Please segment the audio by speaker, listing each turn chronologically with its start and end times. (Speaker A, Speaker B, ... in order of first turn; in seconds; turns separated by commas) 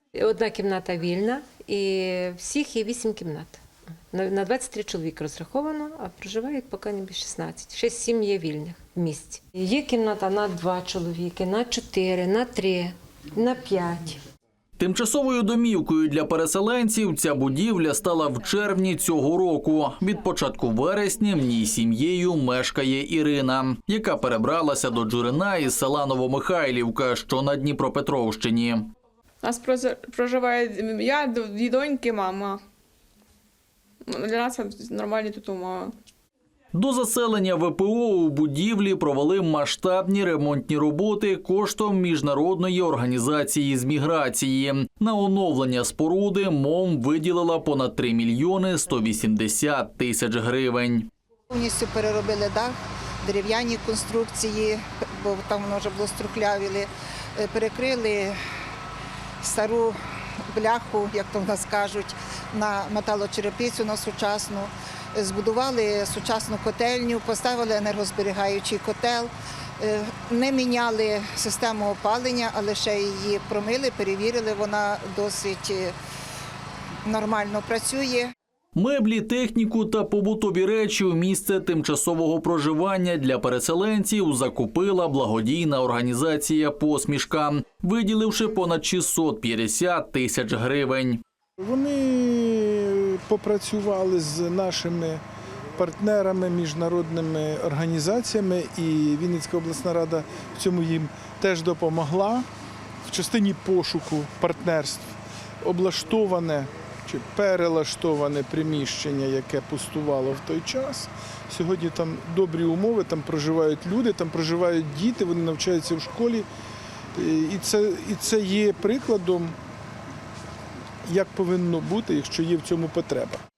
Speaker A: 0.1-3.6, Speaker A: 4.1-14.2, Speaker B: 14.8-28.9, Speaker C: 29.4-32.6, Speaker C: 34.1-35.9, Speaker B: 36.7-51.1, Speaker D: 51.5-58.4, Speaker D: 59.4-60.0, Speaker D: 60.5-75.9, Speaker D: 77.0-78.3, Speaker B: 78.7-91.2, Speaker E: 91.6-95.2, Speaker E: 95.8-102.5, Speaker E: 103.1-105.1, Speaker E: 105.6-116.5, Speaker E: 117.1-119.5, Speaker E: 121.1-123.4